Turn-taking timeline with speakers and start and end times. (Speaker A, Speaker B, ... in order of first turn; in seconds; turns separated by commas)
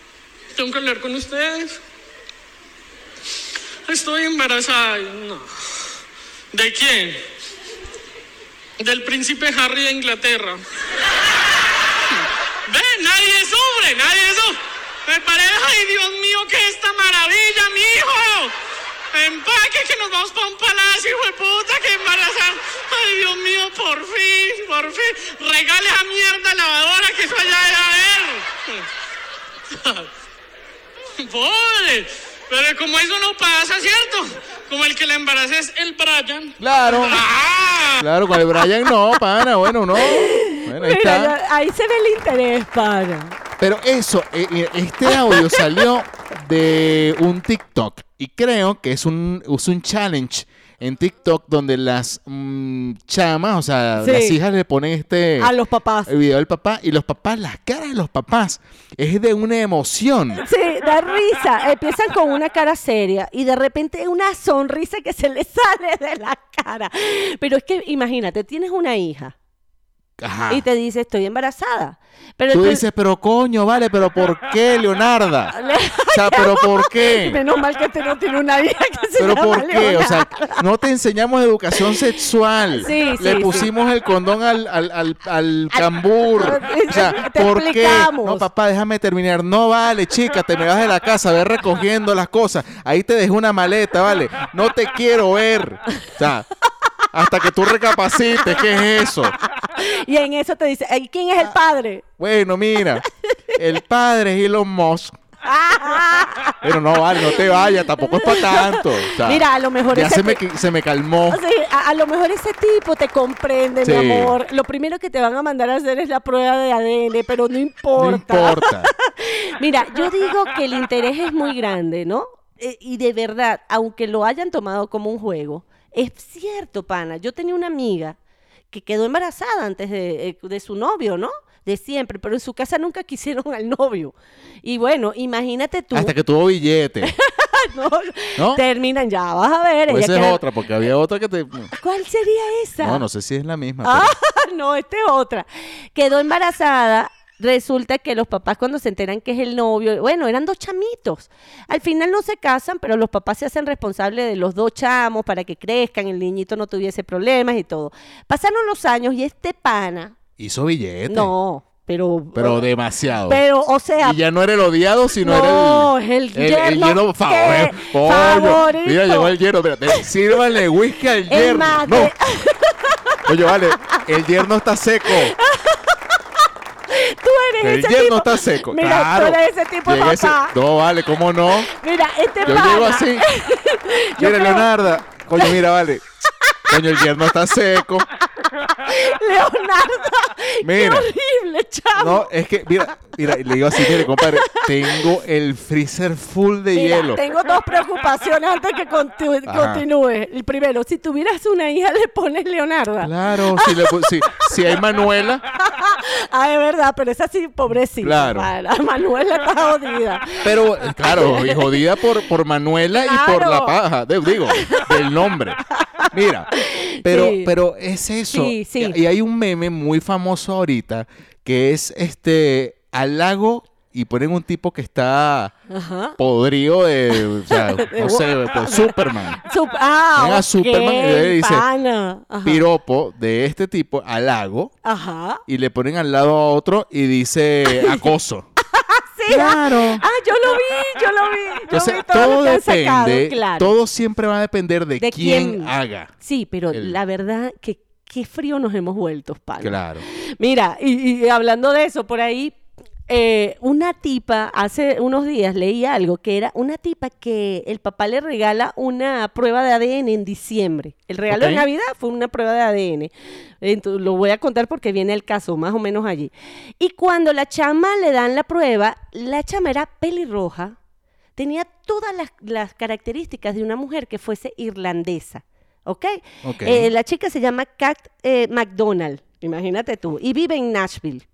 Speaker A: 0.6-1.8, Speaker A: 3.9-5.5, Speaker A: 6.5-7.2, Speaker A: 8.8-10.6, Speaker A: 12.1-18.5, Speaker A: 19.1-28.9, Speaker A: 29.7-30.1, Speaker A: 31.2-38.0, Speaker B: 36.6-37.2, Speaker B: 38.0-41.3, Speaker C: 39.9-43.4, Speaker B: 43.6-55.5, Speaker C: 45.2-45.6, Speaker C: 54.0-54.4, Speaker C: 55.4-56.1, Speaker B: 56.1-60.4, Speaker C: 60.4-69.3, Speaker B: 70.2-70.6, Speaker C: 70.5-72.8, Speaker B: 72.5-75.5, Speaker C: 75.5-80.6, Speaker B: 76.1-77.4, Speaker B: 79.2-96.5, Speaker C: 82.7-83.7, Speaker C: 85.7-88.5, Speaker B: 97.1-99.3, Speaker C: 99.5-102.0, Speaker B: 102.2-103.0, Speaker B: 103.5-105.1, Speaker C: 105.4-110.4, Speaker B: 106.6-111.4, Speaker C: 111.3-128.2, Speaker B: 113.8-114.3, Speaker B: 117.9-118.9, Speaker C: 128.7-136.1, Speaker B: 135.9-137.1, Speaker C: 137.0-140.4, Speaker B: 138.4-138.6, Speaker B: 139.9-141.7, Speaker C: 141.7-143.0, Speaker B: 142.8-144.1, Speaker C: 143.8-160.1, Speaker B: 160.4-161.3, Speaker C: 161.1-162.7, Speaker B: 162.3-163.4, Speaker C: 163.2-164.2, Speaker B: 164.0-172.1, Speaker C: 165.2-169.3, Speaker C: 169.9-170.4, Speaker C: 171.3-174.0, Speaker B: 173.2-175.3, Speaker C: 175.1-176.1, Speaker C: 176.9-180.5, Speaker B: 177.6-181.7, Speaker C: 181.7-184.7, Speaker B: 182.4-183.2, Speaker B: 184.2-186.0, Speaker C: 186.4-186.8, Speaker B: 186.7-188.1, Speaker C: 188.4-192.3, Speaker B: 190.6-191.1, Speaker B: 191.9-197.2, Speaker C: 193.5-195.1, Speaker C: 196.7-204.8, Speaker B: 199.4-199.8, Speaker B: 203.0-205.4, Speaker C: 205.6-211.8, Speaker B: 208.0-208.5, Speaker B: 210.4-216.5, Speaker C: 212.9-213.8, Speaker C: 214.5-215.0, Speaker C: 215.9-217.5, Speaker B: 217.0-225.5, Speaker C: 218.3-219.0, Speaker C: 225.7-226.2, Speaker B: 226.2-229.4, Speaker C: 227.1-232.6, Speaker B: 230.2-231.7, Speaker B: 232.4-234.7, Speaker C: 234.8-235.4, Speaker B: 235.5-238.5, Speaker C: 237.7-238.1, Speaker C: 238.7-243.7, Speaker B: 239.3-240.0, Speaker B: 241.7-246.1, Speaker C: 245.0-252.6, Speaker B: 246.7-247.0, Speaker B: 249.6-250.0, Speaker C: 253.1-270.8, Speaker B: 261.3-261.6, Speaker C: 271.4-281.2, Speaker B: 276.4-276.9